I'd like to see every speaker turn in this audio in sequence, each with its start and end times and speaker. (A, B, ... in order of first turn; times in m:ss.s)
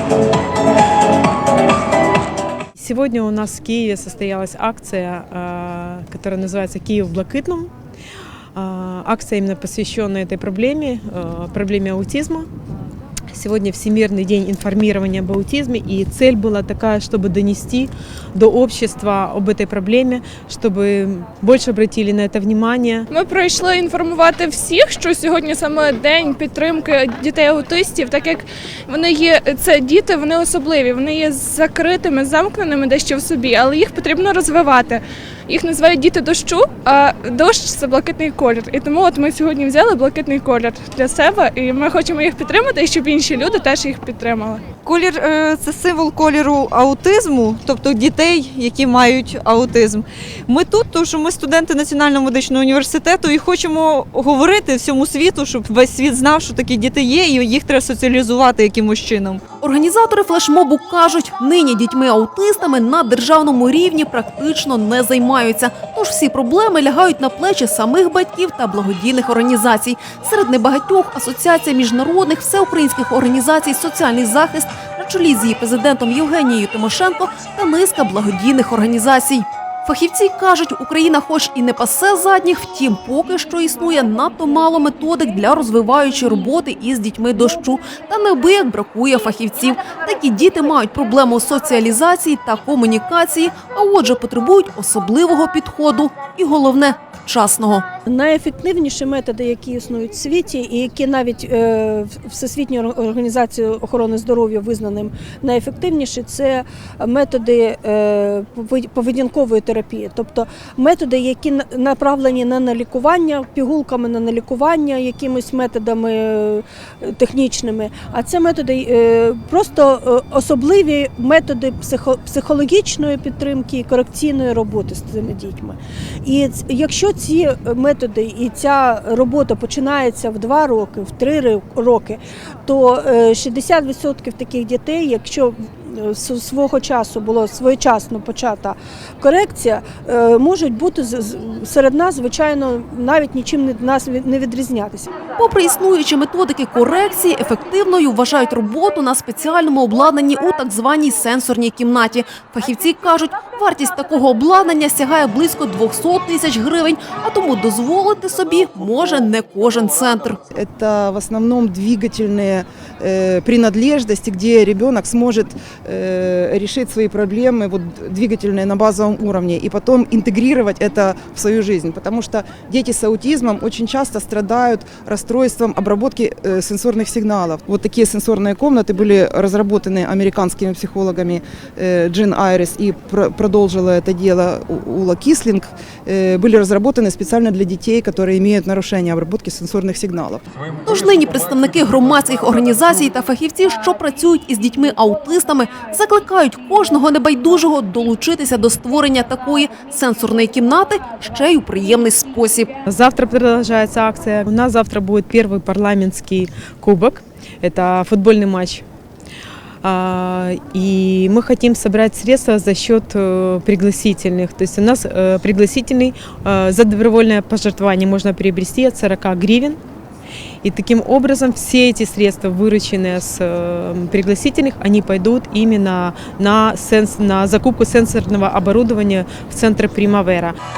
0:02.8-0:07.7 A
0:08.5-0:12.5 A
0:13.3-0:23.1 A
0:23.1-0:44.6 B
0:44.8-0:59.4 C
0:59.6-1:37.8 D
1:38.0-2:25.2 E
2:25.4-2:40.4 D
2:40.5-3:10.4 F
3:10.8-3:22.7 D
3:22.8-3:28.8 A
3:29.8-3:39.8 A
3:40.6-3:50.5 A